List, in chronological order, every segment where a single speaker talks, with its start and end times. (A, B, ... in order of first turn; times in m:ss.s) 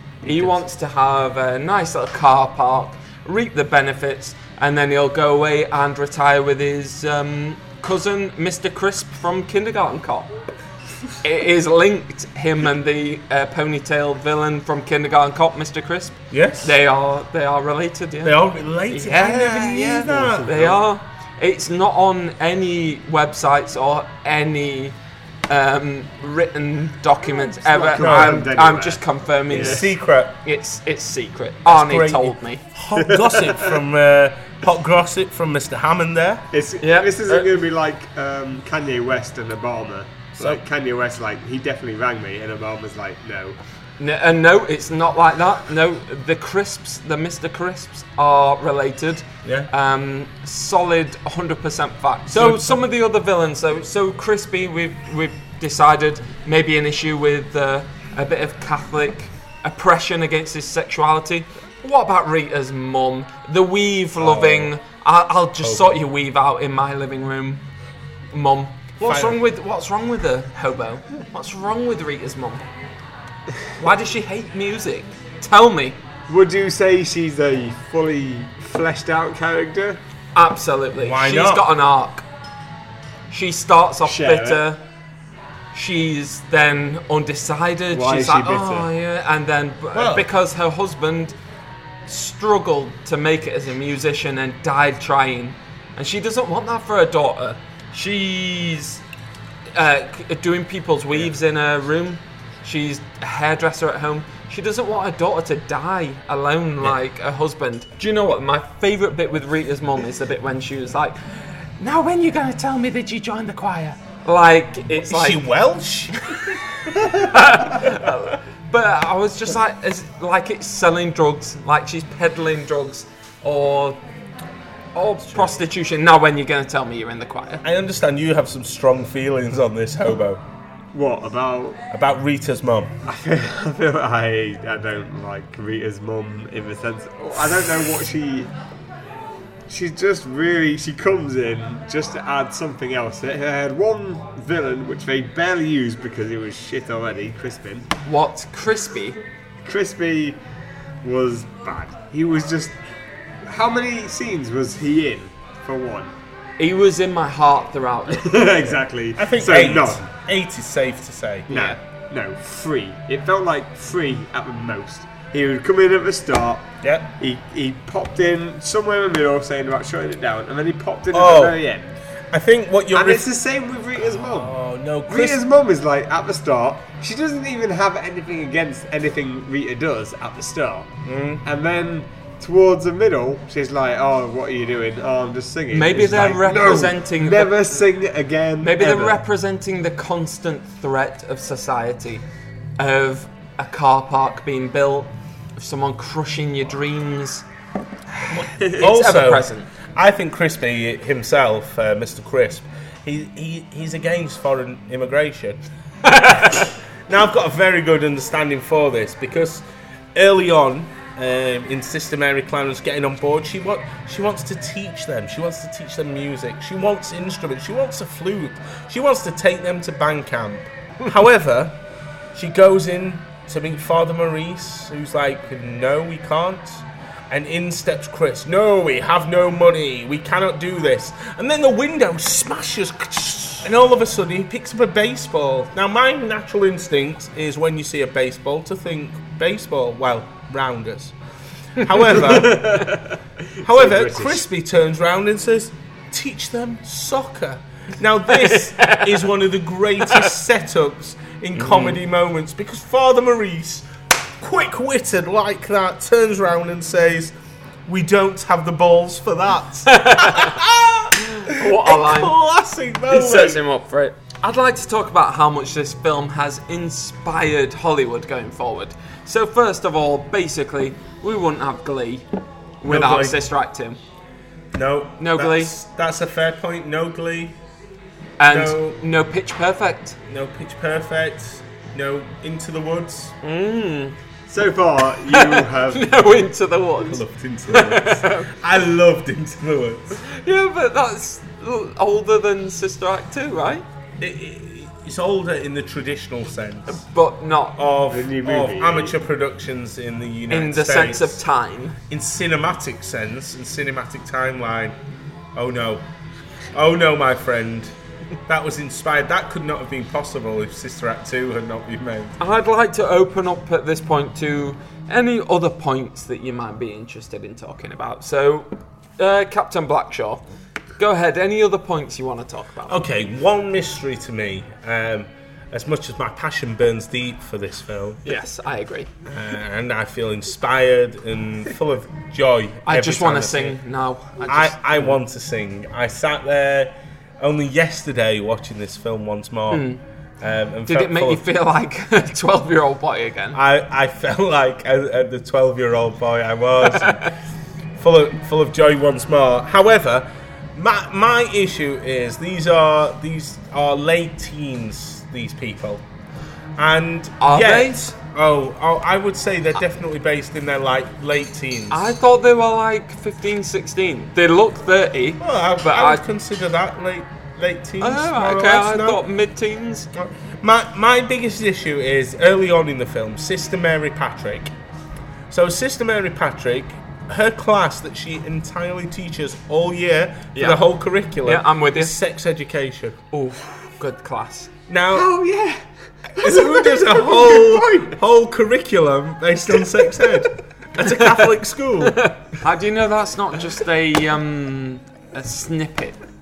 0:00.2-0:00.6 A
0:00.2-0:10.3 B
0:11.2-0:25.0 B
0:16.3-0:16.8 A
0:18.2-0:20.8 A
0:25.5-0:29.9 B
0:27.6-0:29.8 C
0:28.0-0:28.5 A
0:29.5-0:30.4 A
0:30.4-0:32.6 B
0:31.7-0:36.4 A
0:33.0-0:33.8 C
0:36.5-0:43.6 C
0:36.8-0:37.6 B
0:44.0-1:07.6 B
0:49.4-0:49.7 A
0:52.3-0:52.8 A
1:04.2-1:04.7 A
1:05.6-1:06.0 A
1:08.3-1:12.6 B
1:09.0-1:09.4 A
1:13.8-1:16.0 B
1:16.3-1:20.0 C
1:20.4-1:22.2 B
1:21.0-1:21.7 A
1:23.3-1:24.8 B
1:24.0-1:24.6 C
1:25.7-1:31.4 B
1:27.9-1:28.9 C
1:29.9-1:30.3 A
1:32.1-1:39.0 B
1:39.7-1:51.2 B
1:51.8-1:55.4 B
1:54.9-1:57.0 A
1:56.2-1:56.5 B
1:57.1-2:04.0 B
2:05.0-2:07.6 B
2:07.6-2:10.4 A
2:10.9-2:11.8 C
2:11.9-2:12.9 A
2:13.0-2:18.5 C
2:19.7-2:27.9 C
2:28.0-2:29.2 B
2:29.6-2:30.4 C
2:31.0-2:32.8 C
2:33.4-2:36.1 C
2:36.6-2:38.4 B
2:38.1-2:40.1 C
2:38.6-2:41.5 A
2:41.5-2:52.0 C
2:41.5-2:41.8 B
2:46.8-2:47.1 A
2:51.1-2:51.6 A
2:52.3-2:53.3 A
2:52.9-2:54.6 C
2:54.2-2:55.4 A
2:55.1-3:09.2 C
3:01.0-3:01.4 A
3:05.7-3:07.8 B
3:08.6-3:12.2 B
3:12.8-3:17.4 B
3:18.2-3:19.7 B
3:18.3-3:25.6 A
3:26.0-3:26.7 B
3:26.4-3:41.8 A
3:42.4-4:01.2 A
4:01.8-4:03.0 A
4:02.1-4:04.4 C
4:03.6-4:13.9 A
4:08.3-4:09.3 B
4:10.0-4:10.3 B
4:11.6-4:12.0 B
4:14.4-4:17.3 A
4:17.9-4:23.6 A
4:19.9-4:20.6 B
4:21.2-4:22.4 B
4:23.1-4:32.2 B
4:32.8-4:34.0 B
4:32.8-4:33.4 A
4:34.7-4:37.6 A
4:35.2-4:35.7 B
4:38.4-4:40.2 B
4:38.5-4:39.0 A
4:40.3-4:43.4 A
4:43.4-4:44.2 B
4:44.5-4:46.2 C
4:45.3-4:48.5 B
4:47.0-4:50.2 A
4:50.2-4:53.8 B
4:54.2-4:57.0 A
4:56.9-4:57.8 B
4:57.8-5:01.4 A
4:58.1-4:59.2 C
5:00.5-5:02.0 B
5:02.1-5:04.9 A
5:05.6-5:06.0 A
5:06.7-5:07.9 A
5:08.5-5:12.4 A
5:12.4-5:20.4 B
5:21.0-5:23.0 B
5:22.9-5:28.3 A
5:28.2-5:29.1 B
5:29.3-5:33.8 A
5:32.9-5:35.2 B
5:34.4-5:39.9 A
5:39.7-5:40.0 B
5:40.4-5:41.4 A
5:40.9-5:43.6 B
5:43.5-5:47.2 A
5:46.8-5:47.3 B
5:48.0-5:56.0 A
5:56.8-6:02.1 A
5:57.4-5:58.1 B
6:01.9-6:06.2 B
6:05.4-6:09.2 A
6:08.0-6:10.1 B
6:10.1-6:14.7 A
6:15.5-6:23.2 A
6:20.6-6:20.8 B
6:21.4-6:22.1 B
6:23.3-6:24.7 B
6:24.9-6:25.3 A
6:25.1-6:28.2 C
6:26.4-6:32.2 A
6:29.8-6:30.4 C
6:31.0-6:31.5 B
6:32.0-6:36.2 B